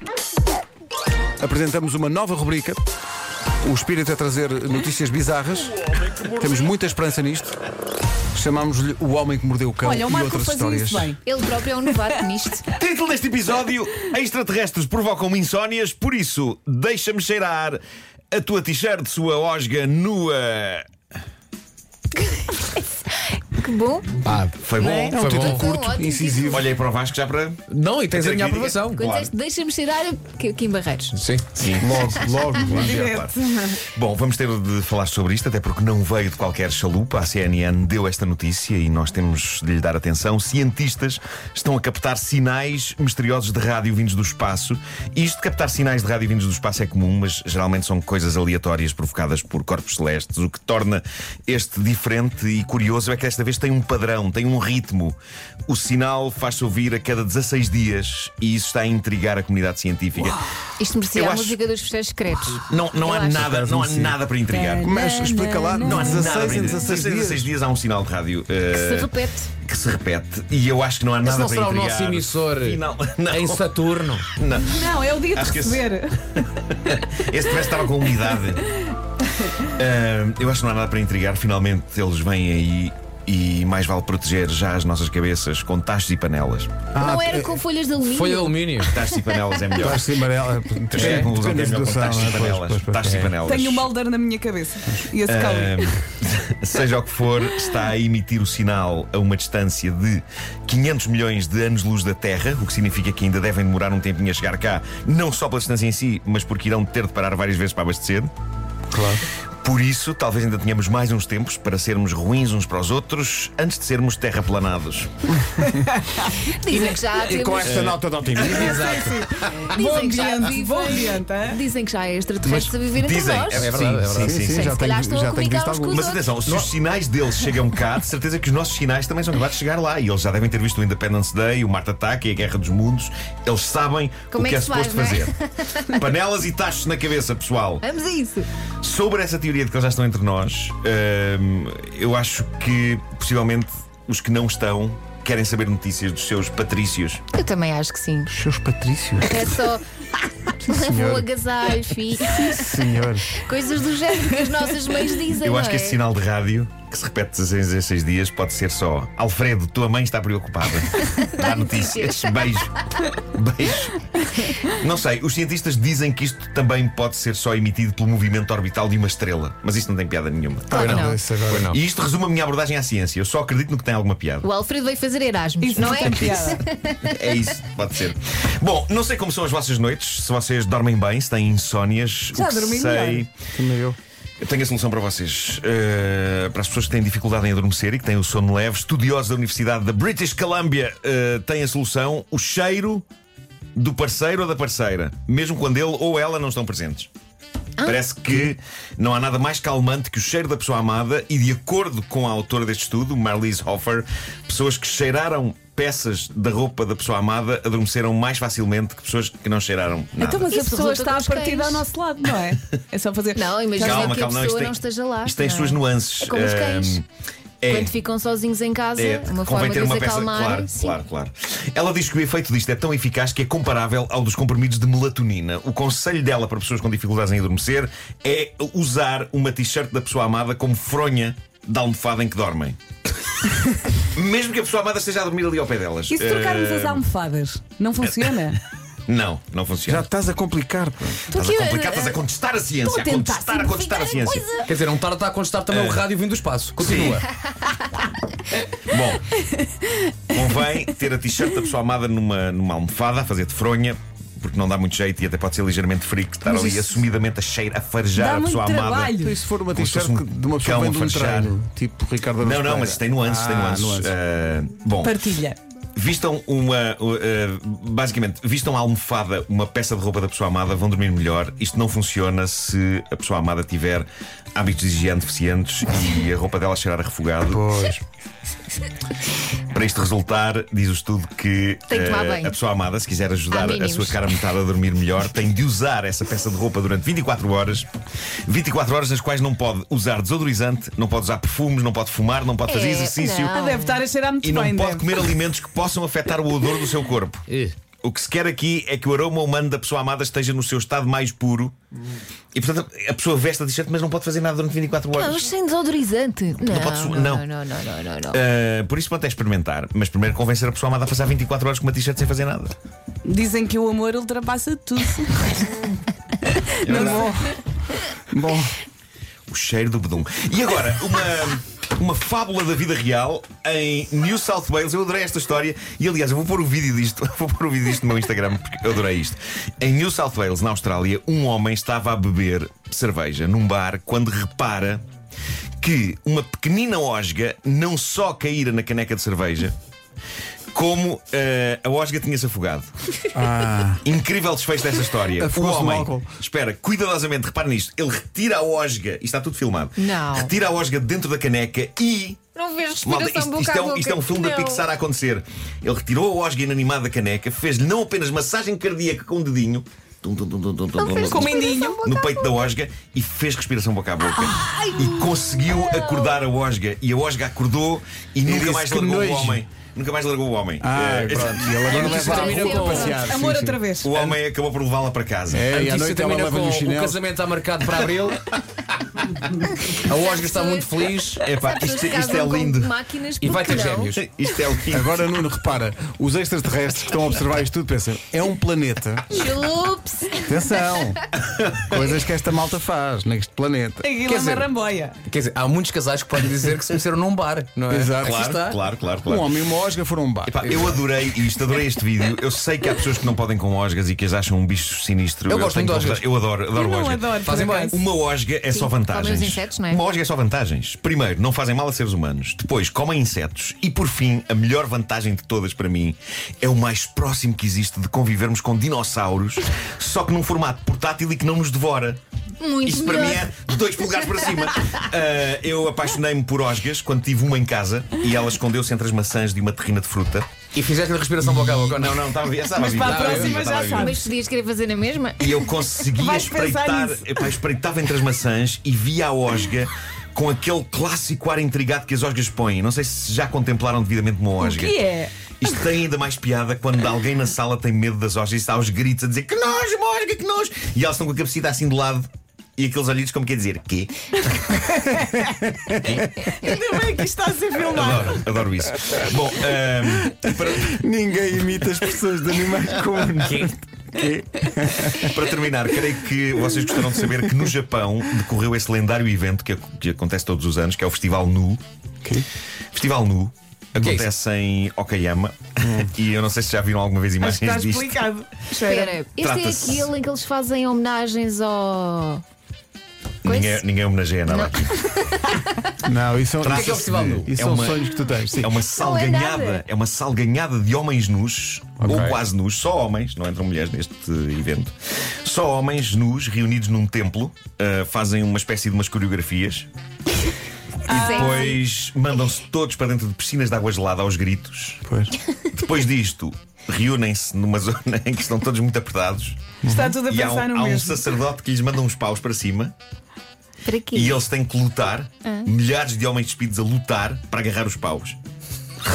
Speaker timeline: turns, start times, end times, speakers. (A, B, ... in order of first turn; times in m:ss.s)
0:01.4-0:02.8 A
0:03.6-0:07.6 A
0:08.3-0:11.2 A
0:09.8-0:12.2 B
0:11.2-0:12.7 C
0:12.7-0:17.8 D
0:18.3-0:20.9 D
0:23.5-0:24.2 C
0:24.2-0:25.6 E
0:24.6-0:25.2 D
0:25.0-0:26.7 C
0:25.1-0:26.7 A
0:26.5-0:27.6 D
0:27.7-0:29.0 E
0:28.1-0:29.3 D
0:29.0-0:31.2 C
0:31.1-0:31.5 E
0:31.5-0:55.2 D
0:31.8-0:33.0 A
0:32.6-0:33.8 B
0:55.7-1:00.4 D
1:00.8-1:03.5 C
1:01.1-1:01.6 D
1:02.7-1:05.0 D
1:03.3-1:04.2 A
1:04.5-1:06.6 B
1:04.8-1:07.5 A
1:05.8-1:13.6 D
1:08.7-1:09.5 C
1:11.2-1:14.3 E
1:14.3-1:18.7 D
1:14.7-1:16.2 B
1:19.6-1:26.8 D
1:26.9-1:27.6 A
1:27.0-1:29.3 C
1:28.1-1:29.0 E
1:28.9-1:30.1 D
1:29.8-1:33.2 A
1:30.9-1:33.9 D
1:31.0-1:31.3 E
1:33.0-1:33.4 E
1:33.4-1:35.9 B
1:35.3-1:48.3 D
1:48.9-1:49.2 A
1:49.6-1:55.1 D
1:55.7-1:56.4 B
1:56.5-1:57.9 C
1:57.1-1:58.9 A
1:57.6-1:58.6 D
1:58.4-2:01.6 B
1:58.4-1:59.7 E
1:59.5-2:03.7 C
2:02.4-2:04.4 D
2:03.5-2:04.6 E
2:04.0-2:06.0 A
2:04.4-2:06.4 C
2:05.9-2:17.8 D
2:14.3-2:16.0 C
2:17.8-2:18.5 C
2:18.8-2:27.2 D
2:27.3-2:28.3 C
2:28.3-2:29.5 A
2:29.2-2:29.8 C
2:30.5-2:32.8 C
2:30.7-2:31.3 A
2:32.3-2:33.4 A
2:33.4-2:36.0 C
2:35.4-2:44.1 D
2:41.0-2:43.0 C
2:44.6-2:51.0 D
2:50.7-2:51.2 C
2:50.7-2:51.7 A
2:50.8-2:51.8 E
2:51.6-2:54.5 D
2:54.4-2:57.1 C
2:55.6-2:56.6 B
2:56.0-2:56.4 D
2:57.0-3:03.3 D
3:02.3-3:03.3 B
3:03.5-3:04.0 A
3:04.4-3:13.0 D
3:13.8-3:17.1 D
3:17.8-3:18.5 C
3:17.8-3:30.5 D
3:30.2-3:34.2 B
3:30.5-3:31.8 C
3:33.3-3:37.0 C
3:33.8-3:37.0 D
3:37.6-3:37.9 D
3:37.7-3:41.0 C
3:39.0-3:52.8 D
3:54.1-3:57.0 D
3:56.1-3:58.6 B
3:58.0-3:58.3 D
3:59.1-4:00.1 D
3:59.9-4:01.2 A
4:01.0-4:04.5 D
4:01.3-4:02.2 C
4:02.8-4:03.7 B
4:03.6-4:04.8 C
4:04.7-4:07.2 E
4:05.7-4:06.1 D
4:06.8-4:07.2 D
4:08.8-4:09.2 D
4:10.3-4:19.2 D
4:18.2-4:19.4 B
4:19.2-4:24.1 A
4:19.7-4:21.6 D
4:22.4-4:25.2 D
4:25.0-4:25.6 B
4:26.0-4:37.7 D
4:37.5-4:38.0 A
4:39.7-4:47.9 D
4:41.9-4:42.6 C
4:43.5-4:44.2 C
4:48.5-4:53.6 D
4:52.7-4:54.0 C
4:53.5-4:55.2 B
4:54.4-4:57.4 D
4:58.0-5:01.8 D
5:02.5-5:05.5 D
5:05.2-5:08.4 C
5:06.6-5:07.5 D
5:08.3-5:12.8 D
5:13.3-5:16.0 B
5:16.8-5:17.4 B
5:16.8-5:17.3 D
5:16.9-5:17.6 A
5:18.3-5:18.7 A
5:19.5-5:35.0 D
5:35.8-5:39.8 D
5:40.7-5:42.9 D
5:43.3-5:44.0 A
5:44.0-5:52.4 D
5:45.4-5:46.3 A
5:50.0-5:50.5 C
5:52.6-5:54.8 C
5:53.0-6:12.6 D
6:01.0-6:02.7 C
6:01.2-6:02.0 B
6:04.4-6:06.3 C
6:04.6-6:04.9 B
6:08.5-6:09.6 A
6:10.8-6:13.8 A
6:11.9-6:13.2 C
6:11.9-6:14.2 B
6:14.0-6:15.7 D
6:15.5-6:17.2 A
6:15.7-6:18.6 E
6:20.0-6:24.2 C
6:20.0-6:21.5 E
6:21.4-6:23.0 D
6:23.4-6:24.2 E
6:24.0-6:25.2 D
6:24.9-6:29.4 A
6:29.3-6:30.5 C
6:30.5-6:31.2 A
6:31.4-6:31.9 D
6:31.8-6:34.1 A
6:34.0-6:35.2 B
6:34.2-6:34.7 E
6:35.3-6:38.8 E
6:37.9-6:38.4 A
6:38.2-6:39.5 D
6:39.3-6:40.6 A
6:40.5-6:47.3 D
6:40.6-6:41.0 E
6:45.5-6:46.2 E
6:46.7-6:48.0 B
6:47.4-6:48.0 E
6:47.9-7:02.2 D
6:48.7-6:50.0 C
7:02.6-7:03.5 C
7:02.8-7:10.5 D
7:10.7-7:12.3 E
7:11.9-7:14.2 D
7:12.8-7:14.2 B
7:13.0-7:13.6 E
7:13.9-7:15.8 C
7:15.4-7:25.0 D
7:16.2-7:17.5 B
7:24.6-7:25.3 B
7:25.6-7:34.5 D
7:35.0-7:36.5 A
7:35.0-7:35.5 B
7:36.5-7:38.4 B
7:37.9-7:41.0 D
7:40.2-7:45.3 A
7:43.4-7:43.7 E
7:45.1-7:51.8 D
7:52.9-7:58.2 D
7:54.0-7:54.3 E
7:55.8-7:56.1 A
7:57.4-7:59.2 B
7:58.7-8:02.4 C
7:59.4-8:00.1 D
8:03.4-8:04.8 D
8:03.4-8:03.8 C
8:04.5-8:05.9 C
8:06.0-8:08.7 A
8:06.6-8:19.9 D
8:06.6-8:07.5 E
8:09.0-8:09.8 C
8:12.0-8:12.3 A
8:12.0-8:12.4 E
8:21.1-8:21.6 B
8:21.1-8:25.0 D
8:21.1-8:21.8 C
8:25.0-8:25.4 A
8:25.8-8:33.0 D
8:29.8-8:30.2 A
8:29.8-8:31.3 B
8:33.9-8:34.4 C
8:34.1-8:38.4 D